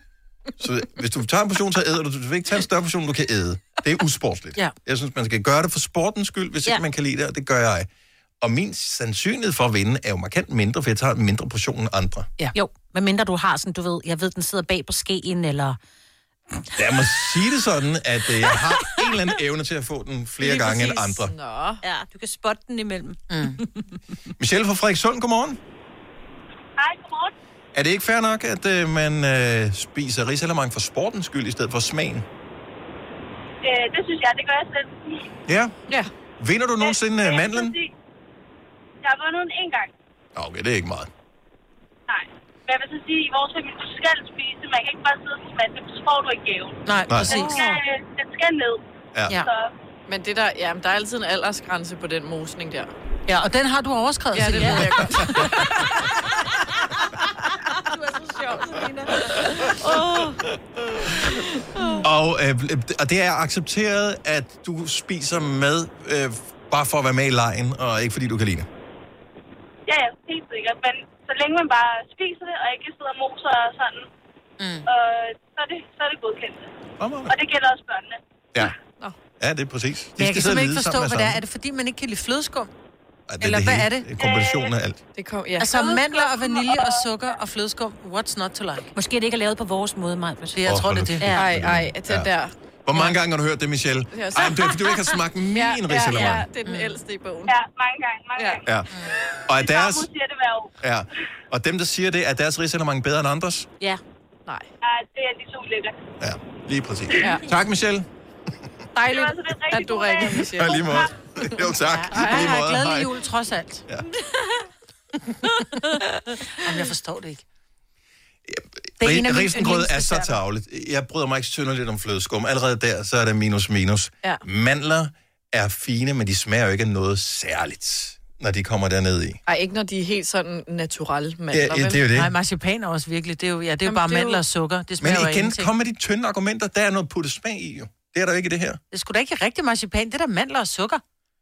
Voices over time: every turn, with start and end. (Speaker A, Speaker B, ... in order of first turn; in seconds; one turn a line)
Speaker A: 0.6-7.9
Speaker A: 8.4-12.3
Speaker B: 12.5-15.8
Speaker A: 16.8-21.3
Speaker B: 20.7-21.0
Speaker C: 21.2-21.8
Speaker B: 21.8-23.9
Speaker D: 23.3-23.6
Speaker A: 24.4-25.6
Speaker E: 26.8-27.3
Speaker A: 27.7-32.3
Speaker E: 33.6-35.2
Speaker A: 35.5-35.7
Speaker A: 36.4-37.8
Speaker E: 36.8-37.9
Speaker E: 39.0-39.9
Speaker A: 40.4-41.1
Speaker E: 42.1-49.7
Speaker D: 46.9-47.8
Speaker A: 47.1-47.5
Speaker A: 49.1-49.4
Speaker C: 50.1-52.9
Speaker D: 53.3-55.7
Speaker C: 54.3-56.0
Speaker B: 54.5-54.9
Speaker C: 57.9-59.0
Speaker B: 59.8-60.4
Speaker C: 61.5-61.9
Speaker A: 62.0-68.7
Speaker E: 69.9-74.1
Speaker D: 74.6-74.9
Speaker E: 74.9-76.7
Speaker A: 77.0-77.4
Speaker E: 77.3-78.2
Speaker A: 79.4-81.4
Speaker D: 80.2-82.7
Speaker A: 83.3-85.0
Speaker D: 83.4-84.1
Speaker E: 84.2-84.8
Speaker C: 85.2-85.8
Speaker D: 85.6-88.9
Speaker E: 86.0-87.0
Speaker B: 89.0-90.6
Speaker D: 90.5-91.3
Speaker A: 90.7-92.3
Speaker B: 91.2-91.5
Speaker C: 91.3-92.5
Speaker A: 92.8-96.5
Speaker C: 94.1-95.0
Speaker C: 95.5-97.5
Speaker D: 96.2-97.0
Speaker E: 97.5-98.7
Speaker C: 98.4-98.6
Speaker A: 98.7-98.9
Speaker A: 99.5-100.1
Speaker E: 99.5-100.7
Speaker A: 100.8-103.7
Speaker E: 104.8-106.0
Speaker A: 106.2-108.1
Speaker C: 107.2-107.5
Speaker C: 109.0-111.0
Speaker E: 109.1-111.1
Speaker A: 110.6-113.2
Speaker D: 111.9-113.8
Speaker C: 112.2-112.5
Speaker D: 116.4-117.4
Speaker A: 118.5-129.4
Speaker D: 119.0-120.4
Speaker C: 129.5-132.1
Speaker A: 131.5-132.3
Speaker D: 132.1-135.7
Speaker C: 133.8-134.3
Speaker A: 135.0-138.8
Speaker D: 138.9-141.0